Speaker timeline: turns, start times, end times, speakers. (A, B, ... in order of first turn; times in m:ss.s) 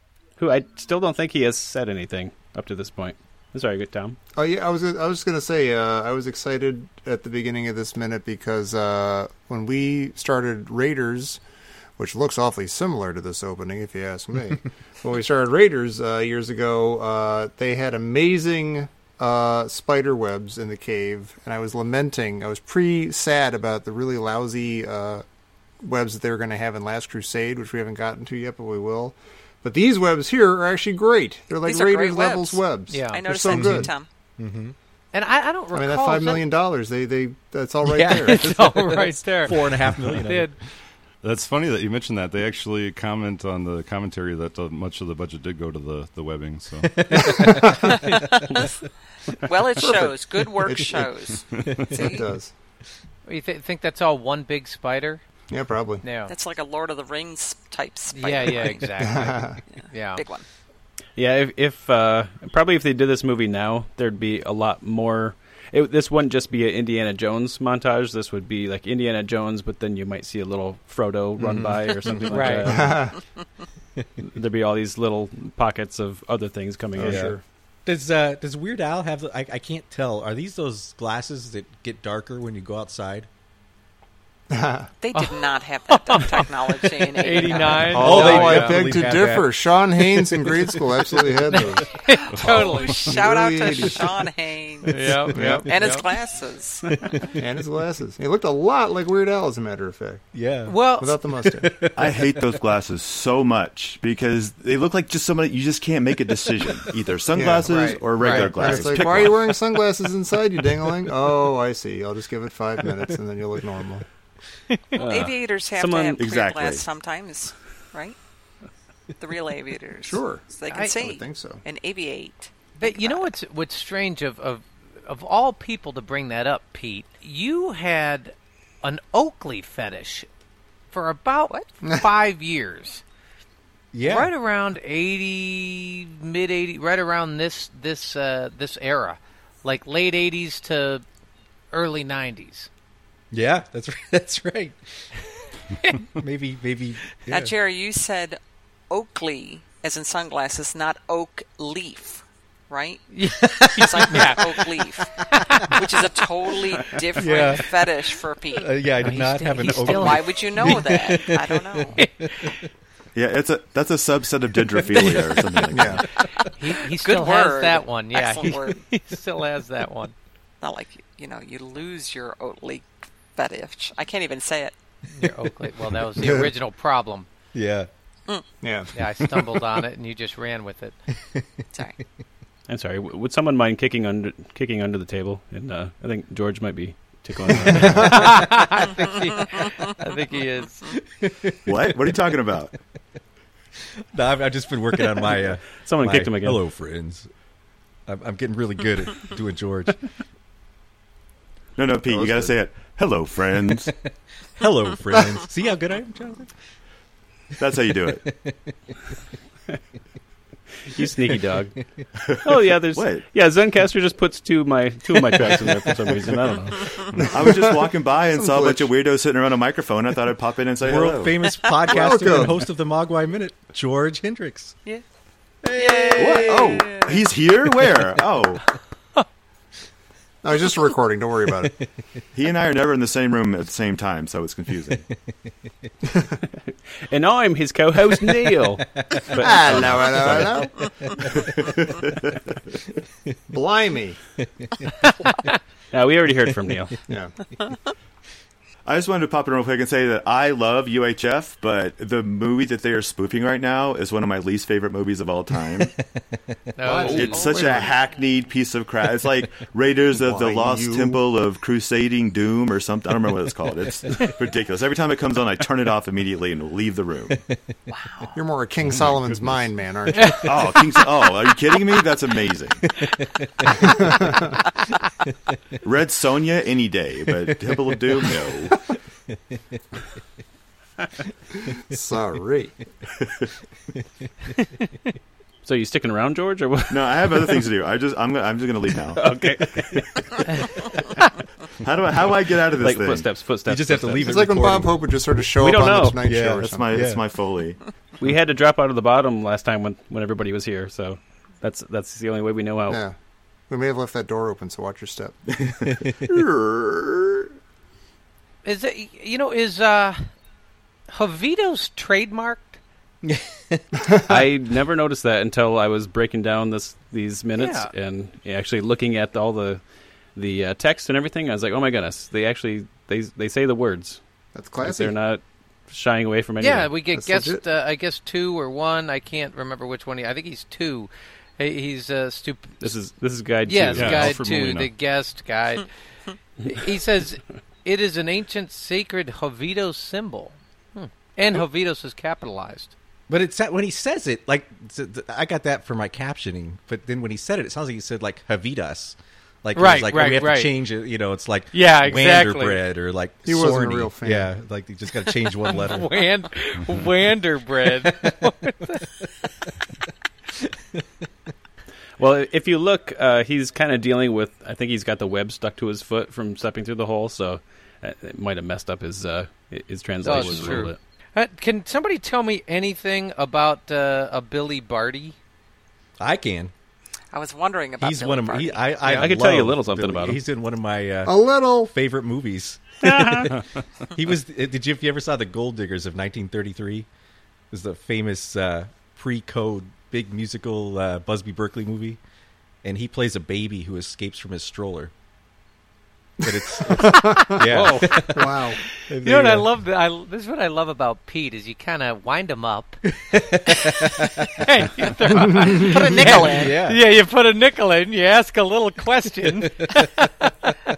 0:00.4-0:04.2 A
0:04.4-0:11.4 B
0:12.0-0:25.2 B
0:25.8-0:33.9 B
0:31.6-0:34.1 C
0:32.9-0:33.3 D
0:33.5-0:34.8 E
0:35.1-0:36.5 D
0:35.7-0:38.5 B
0:37.8-0:40.5 E
0:38.2-0:39.7 D
0:40.2-0:40.6 D
0:41.2-0:47.6 F
0:46.9-0:48.1 E
0:47.6-0:48.0 B
0:48.0-0:48.3 C
0:49.4-0:52.2 C
0:49.8-0:51.1 B
0:51.5-0:51.9 F
0:51.9-0:52.5 B
0:53.2-0:55.2 D
0:55.5-0:56.0 B
0:56.0-0:56.3 D
0:56.3-0:58.9 C
0:58.1-1:00.2 D
0:59.0-0:59.6 B
0:59.7-1:00.4 C
1:01.2-1:13.0 A
1:11.4-1:12.6 E
1:12.3-1:12.9 D
1:12.7-1:13.2 B
1:14.2-1:17.3 A
1:16.9-1:17.4 B
1:17.0-1:23.3 E
1:24.5-1:24.9 B
1:25.0-1:28.4 C
1:25.9-1:28.8 D
1:27.9-1:31.9 B
1:27.9-1:31.6 E
1:31.5-1:33.2 D
1:32.2-1:37.2 C
1:32.4-1:32.8 F
1:32.4-1:34.1 B
1:34.8-1:36.0 D
1:35.3-1:35.7 B
1:37.4-1:40.2 B
1:40.3-1:40.8 E
1:40.7-1:41.2 D
1:41.0-1:41.9 B
1:41.4-1:42.2 E
1:41.9-1:49.6 G
1:47.4-1:54.0 B
1:47.7-1:48.9 D
1:54.9-1:56.2 A
1:55.0-1:58.2 C
1:56.2-1:56.8 G
1:59.2-2:03.3 C
2:00.0-2:00.4 B
2:00.7-2:01.0 D
2:01.0-2:01.6 B
2:02.8-2:10.3 D
2:10.9-2:13.0 D
2:13.9-2:14.3 E
2:14.0-2:21.0 D
2:21.7-2:22.7 D
2:23.3-2:25.1 E
2:25.8-2:26.1 D
2:26.1-2:27.5 E
2:27.3-2:28.4 C
2:28.9-2:38.8 C
2:33.1-2:35.9 D
2:33.8-2:34.3 E
2:37.2-2:37.7 E
2:38.5-2:42.5 E
2:39.0-2:41.0 D
2:39.7-2:42.0 C
2:41.9-2:42.6 D
2:43.1-2:46.0 G
2:44.9-2:45.6 D
2:45.7-2:46.0 B
2:46.6-2:50.1 D
2:46.8-2:48.8 C
2:50.6-2:54.8 C
2:55.1-2:57.3 D
2:56.2-2:56.5 B
2:57.5-2:57.9 E
2:58.6-2:58.9 B
2:58.9-3:01.0 D
3:02.7-3:08.4 A
3:07.9-3:11.0 D
3:11.2-3:12.5 E
3:11.6-3:12.7 G
3:14.1-3:17.3 E
3:15.8-3:16.6 A
3:18.1-3:20.0 E
3:21.8-3:23.9 G
3:22.1-3:22.5 B
3:24.6-3:26.5 E
3:27.6-3:28.2 G
3:28.1-3:28.7 E
3:30.9-3:31.7 A
3:32.3-3:33.2 G
3:32.4-3:36.8 A
3:35.3-3:35.8 E
3:37.2-3:38.9 B
3:37.2-3:41.4 G
3:40.8-3:44.8 E
3:41.9-3:42.7 B
3:45.6-3:46.9 E
3:45.8-3:47.1 C
3:45.9-3:46.7 D
3:46.2-3:48.6 G
3:50.4-3:51.8 B
3:52.3-3:55.0 G
3:57.0-4:00.5 A
3:58.2-4:01.7 E
3:59.3-4:01.3 B
4:01.8-4:02.1 G
4:03.5-4:04.2 B
4:05.9-4:07.0 A
4:07.1-4:07.3 B
4:08.9-4:15.9 G
4:16.8-4:17.9 D
4:16.8-4:17.5 B
4:16.9-4:27.4 G
4:20.2-4:21.2 B
4:27.9-4:28.4 C
4:28.3-4:30.5 B
4:30.1-4:30.5 D
4:30.4-4:32.8 G
4:33.6-4:34.6 B
4:35.8-4:38.8 G
4:37.6-4:38.2 E
4:41.7-4:42.8 B
4:45.6-4:47.6 A
4:46.9-4:49.2 G
4:49.1-4:50.4 A
4:51.8-4:53.3 G
4:52.8-4:54.8 A
4:53.6-4:55.1 E
4:54.2-4:56.8 B
4:55.6-4:56.2 A
4:56.2-4:57.2 E
4:56.6-4:57.8 G
4:58.2-5:03.0 A
5:02.9-5:03.1 B
5:03.7-5:05.4 B
5:05.6-5:06.3 E
5:08.6-5:10.3 D
5:11.1-5:12.8 D
5:13.2-5:13.8 E
5:14.0-5:14.4 B
5:14.3-5:19.8 A
5:17.6-5:17.9 D
5:20.3-5:24.2 A
5:24.5-5:25.1 B
5:24.8-5:26.9 A
5:26.6-5:32.9 D
5:27.1-5:27.6 B
5:32.8-5:34.4 A
5:33.6-5:35.9 D
5:33.9-5:34.9 F
5:36.6-5:42.9 D
5:43.3-5:56.2 E
5:49.8-5:50.8 D
5:51.7-5:52.8 D
5:53.4-5:54.5 B
5:55.6-5:59.0 D
6:02.2-6:11.0 A
6:10.2-6:15.4 D
6:10.4-6:10.8 F
6:16.2-6:16.7 E
6:17.3-6:18.9 C
6:18.0-6:23.6 E
6:19.0-6:20.4 A
6:21.2-6:21.9 B
6:23.0-6:23.5 A
6:24.1-6:27.1 E
6:27.7-6:32.2 E
6:32.8-6:35.1 E
6:36.4-6:39.7 E
6:36.8-6:38.8 B
6:37.2-6:38.6 D
6:39.1-6:43.0 D
6:43.2-6:44.6 E
6:43.7-6:50.5 D
6:45.7-6:46.8 C
6:46.3-6:47.0 E
6:49.6-6:50.0 E